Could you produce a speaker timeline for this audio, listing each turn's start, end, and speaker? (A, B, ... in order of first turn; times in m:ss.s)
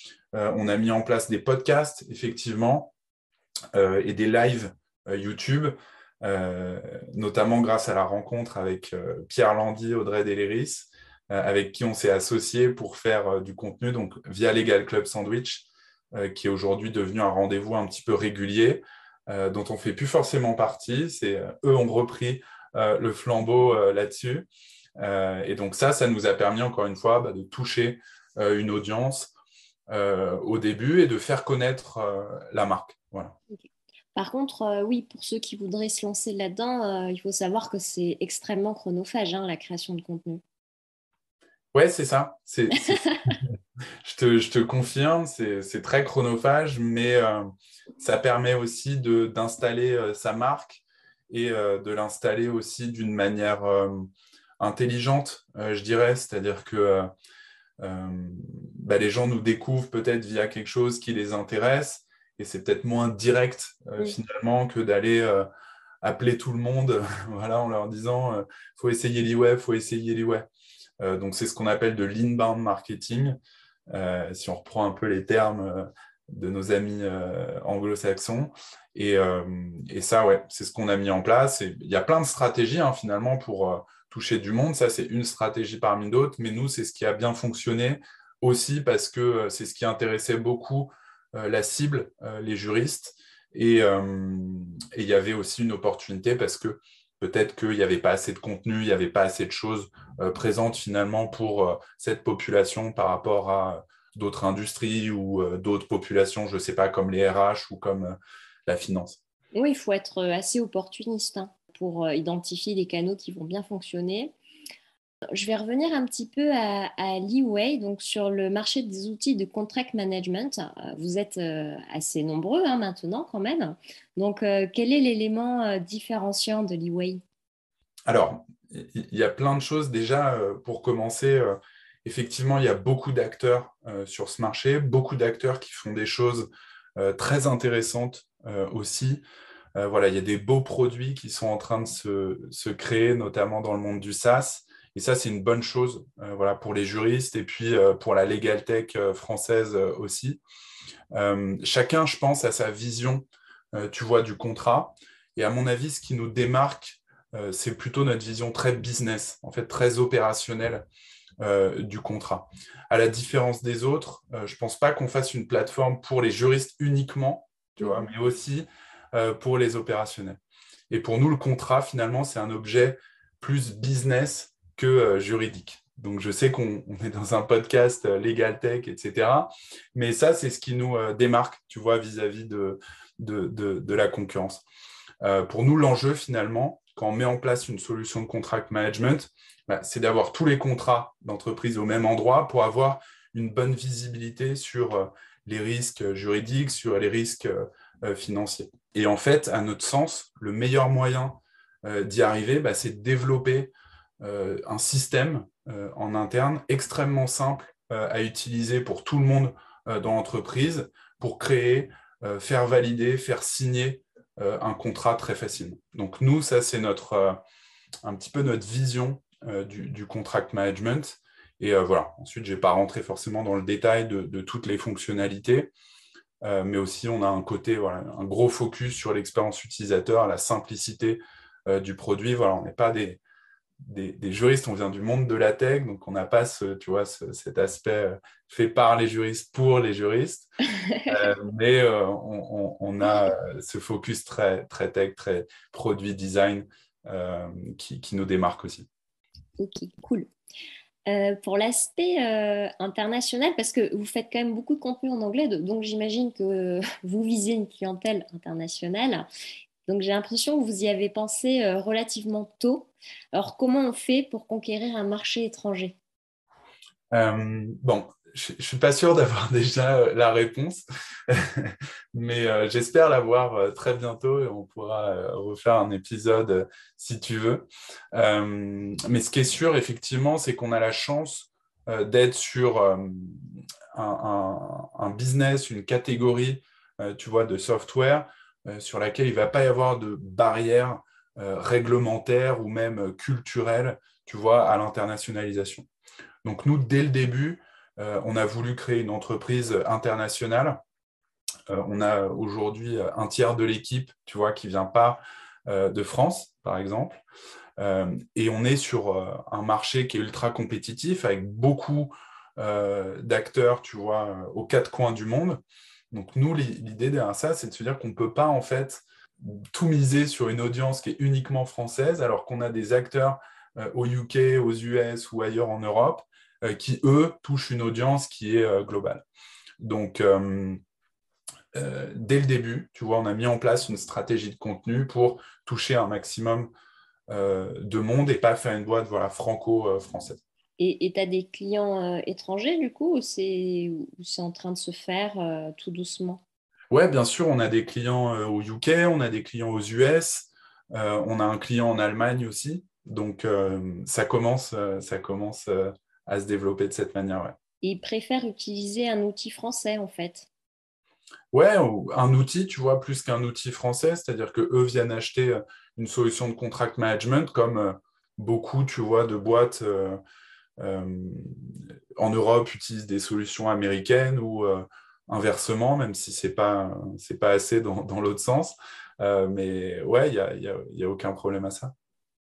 0:00.3-0:02.9 A
0:03.7-0:29.3 A
0:29.9-0:33.4 A
0:34.2-0:40.4 B
0:41.7-0:43.5 A
0:42.9-0:43.3 B
0:44.0-0:47.5 A
0:48.0-0:54.1 A
0:54.6-0:57.1 A
0:57.8-1:05.5 A
1:06.0-1:10.5 A
1:11.0-1:13.4 A
1:13.9-1:49.2 A
1:49.5-1:54.3 B
1:55.3-2:07.2 B
2:08.1-2:19.2 A
2:19.8-2:30.4 A
2:31.1-2:40.8 A
2:41.4-2:50.4 A
2:47.8-2:48.0 B
2:50.9-3:04.6 A
3:05.2-3:37.4 A
3:38.0-3:45.7 A
3:46.4-3:53.2 A
3:53.8-4:00.5 A
4:00.8-4:01.3 B
4:01.1-4:08.9 A
4:09.6-4:10.3 B
4:11.1-4:19.3 B
4:19.8-4:26.0 B
4:27.1-4:55.9 A
4:56.4-5:00.8 A
5:01.7-5:07.2 A
5:07.8-5:29.2 A
5:29.8-5:30.8 A
5:31.7-5:36.7 A
5:37.3-5:40.4 A
5:40.8-5:46.4 B
5:46.9-5:57.6 A
5:57.8-6:00.5 B
6:01.5-6:10.2 A
6:10.8-6:21.9 A